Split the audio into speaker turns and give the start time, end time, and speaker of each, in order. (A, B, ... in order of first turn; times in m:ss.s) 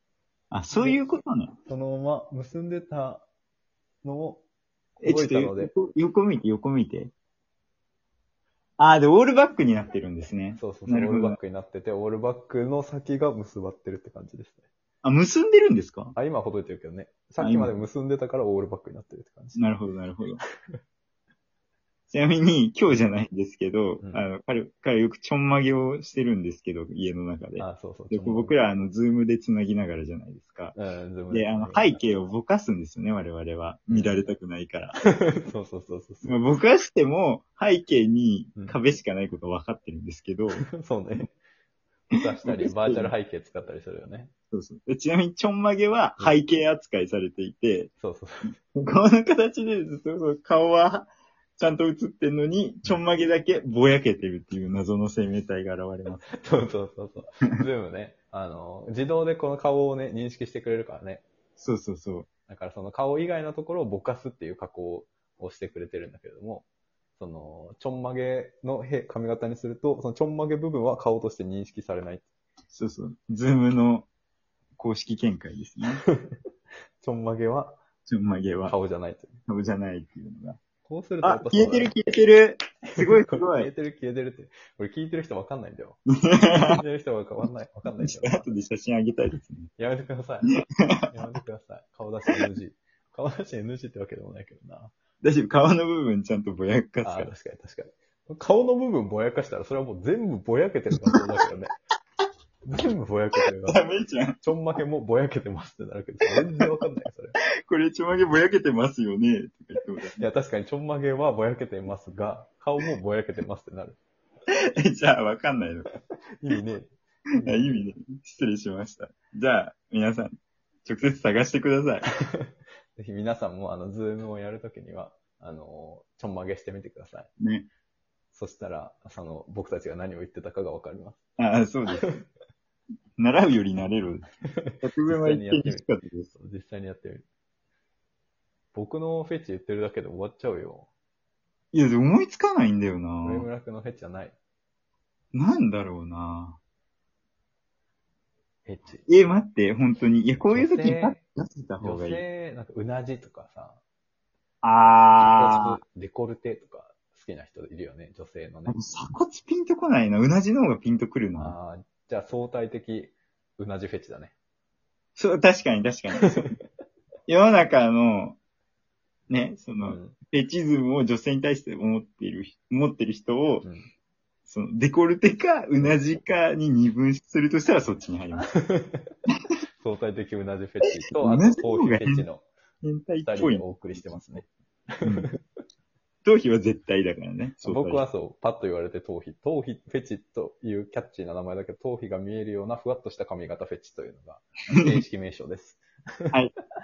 0:00.5-0:01.6 A
0:01.7-0:03.3 B
0:04.0-0:04.4 B
0:05.0-0:07.1 A
0:05.0-0:05.7 B
0:08.8-0:11.4 A
0:10.6-0:14.6 B
0:15.0-0:16.2 A
0:16.1-0:19.6 B
0:17.4-0:17.7 A
0:19.6-0:20.4 A
0:22.1-0:30.8 A
0:27.6-0:28.6 B
0:30.8-0:32.0 B
0:31.3-0:35.0 A
0:33.9-0:34.1 B
0:35.0-0:36.4 B
0:36.2-0:40.7 A
0:40.7-0:41.3 B
0:42.1-0:44.3 B
0:42.4-0:43.1 A
0:44.5-0:47.9 A
0:48.0-0:48.5 B
0:48.7-0:56.3 A
0:56.3-1:01.2 B
1:01.6-1:02.3 A
1:02.5-1:06.6 B
1:07.2-1:12.2 B
1:12.7-1:14.1 A
1:14.8-1:16.0 A
1:16.1-1:16.4 B
1:17.0-1:17.8 B
1:18.1-1:18.8 A
1:18.6-1:19.4 B
1:19.5-1:20.6 A
1:20.8-1:21.9 B
1:21.2-1:23.7 A
1:22.9-1:28.5 B
1:26.2-1:26.8 A
1:28.0-1:29.7 A
1:29.8-1:34.9 B
1:30.8-1:31.1 A
1:35.2-1:37.3 A
1:37.0-1:41.8 B
1:42.7-1:43.8 B
1:43.6-1:44.4 A
1:44.4-1:47.4 B
1:47.4-1:50.2 A
1:50.2-1:54.0 B
1:54.5-1:55.9 A
1:56.4-1:57.8 B
1:57.4-2:00.3 A
2:00.8-2:02.1 A
2:02.4-2:07.3 B
2:07.4-2:07.7 A
2:08.3-2:11.2 B
2:11.4-2:12.1 A
2:11.9-2:12.2 B
2:13.2-2:14.2 A
2:14.4-2:17.2 B
2:14.8-2:16.3 A
2:18.7-2:20.9 B
2:21.7-2:23.5 A
2:23.2-2:24.4 B
2:25.3-2:26.6 A
2:28.6-2:29.1 B
2:29.1-2:32.2 A
2:30.5-2:31.2 B
2:31.8-2:33.8 B
2:34.6-2:35.8 A
2:35.2-2:38.8 B
2:38.7-2:41.6 A
2:41.4-2:44.3 B
2:45.2-2:46.5 A
2:46.3-2:46.5 B
2:47.3-2:48.4 A
2:49.3-2:53.7 A
2:49.8-2:50.2 B
2:53.6-2:53.9 B
2:54.5-2:58.5 A
2:58.6-2:59.1 B
2:59.8-3:02.4 B
3:01.1-3:02.3 A
3:02.8-3:04.4 A
3:03.2-3:05.4 B
3:05.0-3:05.3 A
3:06.2-3:08.1 A
3:07.6-3:16.3 B